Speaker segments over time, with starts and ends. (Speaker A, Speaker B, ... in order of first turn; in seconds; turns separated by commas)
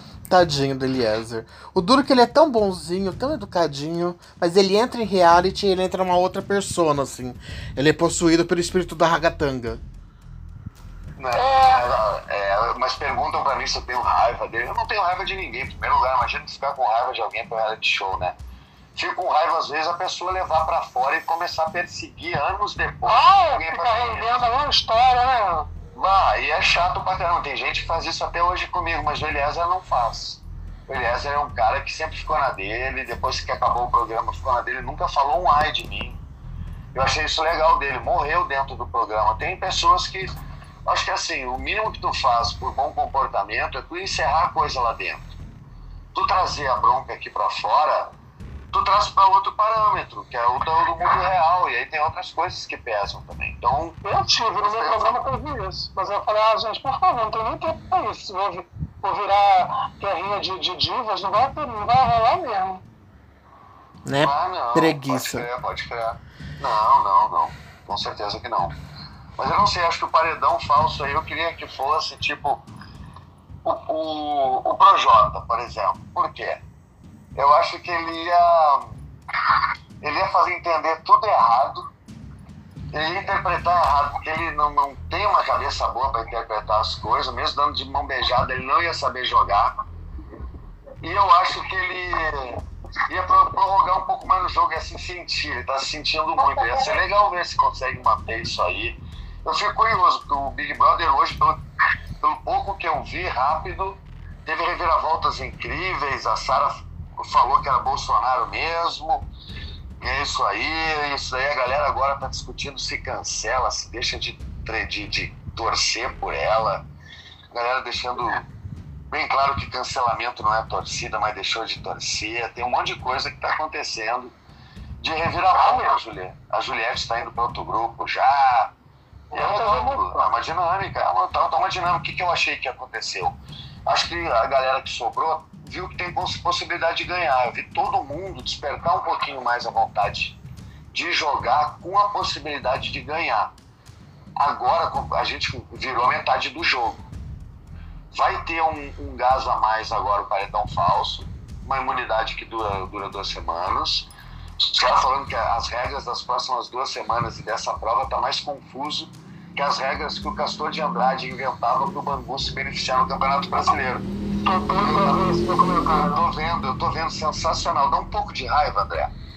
Speaker A: 0.3-9.8, Speaker B: 11.2-18.4, Speaker C: 11.3-12.0, Speaker B: 18.9-24.5, Speaker C: 23.1-25.7, Speaker B: 25.9-36.2, Speaker B: 36.9-40.3, Speaker B: 40.9-45.3, Speaker B: 46.1-48.1, Speaker B: 48.7-54.0, Speaker C: 54.0-62.8, Speaker B: 54.6-55.2, Speaker A: 64.0-65.5, Speaker B: 64.2-68.8, Speaker B: 69.4-72.6, Speaker B: 73.7-76.6, Speaker B: 77.4-79.0, Speaker B: 80.0-81.9, Speaker B: 82.9-89.8, Speaker B: 91.0-101.6, Speaker B: 102.2-109.3, Speaker B: 110.0-116.9, Speaker B: 117.5-118.5, Speaker B: 119.1-124.3, Speaker B: 125.0-128.7, Speaker C: 125.6-126.0, Speaker C: 129.3-130.3, Speaker B: 129.3-133.3, Speaker B: 133.9-140.4, Speaker B: 140.9-143.5, Speaker B: 144.4-147.0, Speaker B: 148.1-154.1, Speaker B: 154.7-164.1, Speaker C: 164.4-166.2, Speaker B: 164.8-169.1